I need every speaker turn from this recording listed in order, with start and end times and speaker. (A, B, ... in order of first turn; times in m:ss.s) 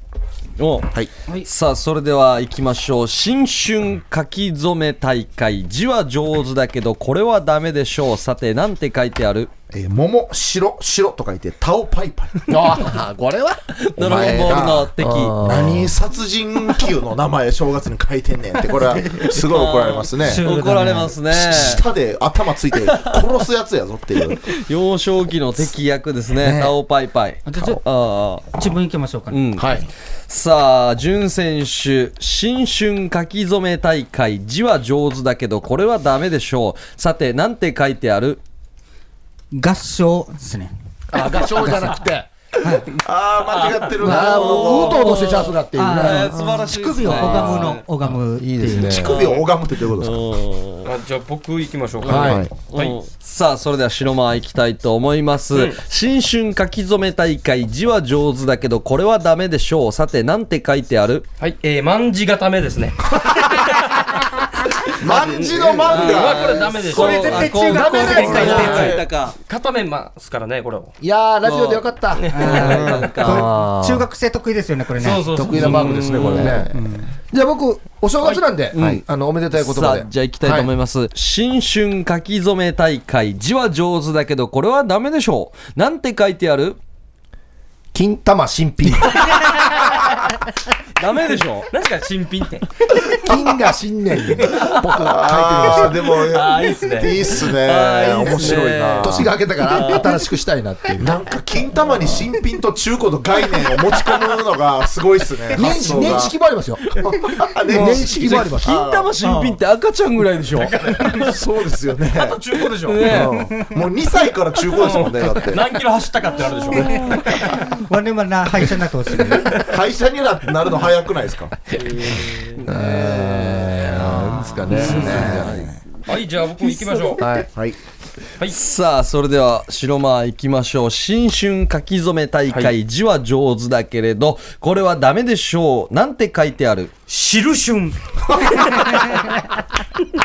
0:00.6-0:00.9 A
0:01.4-0:09.5 A
0:09.7-0:12.9 B
0:12.5-0:15.9 C
0:13.8-0:15.4 A
0:14.0-0:20.4 B
0:19.4-0:21.8 A
0:20.2-0:21.1 D
0:21.3-0:24.5 B
0:22.9-0:23.2 A
0:24.4-0:28.5 A
0:26.4-0:26.7 B
0:27.5-0:27.8 D
0:28.5-0:29.4 D
0:29.3-0:29.8 A
0:30.3-0:38.4 A
0:39.5-0:40.7 D
0:41.1-0:42.3 C
0:42.6-0:42.9 D
0:42.8-0:45.2 B
0:43.5-0:43.9 E
0:44.0-0:46.4 C
0:44.0-0:47.8 A
0:45.7-0:49.0 D
0:46.4-0:46.6 B
0:47.0-0:49.2 C
0:48.8-0:50.3 B
0:49.1-0:50.9 A
0:50.8-0:53.0 E
0:52.0-1:01.3 A
0:52.0-0:52.5 C
0:52.2-0:52.5 B
0:55.5-0:55.8 E
1:01.4-1:10.9 E
1:03.2-1:03.5 B
1:05.0-1:06.7 B
1:05.8-1:09.4 A
1:06.9-1:09.0 D
1:07.7-1:08.9 C
1:08.7-1:08.9 B
1:11.0-1:14.1 C
1:11.4-1:13.5 A
1:12.2-1:13.1 E
1:12.3-1:15.4 D
1:15.0-1:16.6 E
1:15.3-1:16.7 C
1:15.5-1:16.6 A
1:16.7-1:17.1 D
1:17.3-1:20.7 C
1:18.7-1:19.0 A
1:19.6-1:26.8 A
1:27.9-1:29.4 C
1:31.0-1:31.7 A
1:31.7-1:33.2 E
1:33.2-1:36.1 C
1:34.4-1:34.8 E
1:35.0-1:39.3 B
1:36.2-1:37.2 E
1:37.5-1:39.2 A
1:39.0-1:41.1 C
1:39.8-1:40.0 A
1:41.0-1:46.4 B
1:45.5-1:46.8 C
1:46.9-1:49.1 B
1:47.7-1:48.8 C
1:48.1-1:51.3 A
1:50.6-1:51.4 E
1:51.2-1:55.7 B
1:52.1-1:53.3 E
1:52.9-1:53.4 A
1:54.7-1:57.7 E
1:57.7-1:59.6 D
1:59.5-2:01.6 B
2:02.0-2:05.7 C
2:02.0-2:05.7 A
2:04.7-2:05.2 E
2:04.8-2:05.8 B
2:06.1-2:07.2 E
2:07.2-2:07.5 C
2:08.5-2:16.9 A
2:17.1-2:18.0 E
2:18.7-2:19.2 E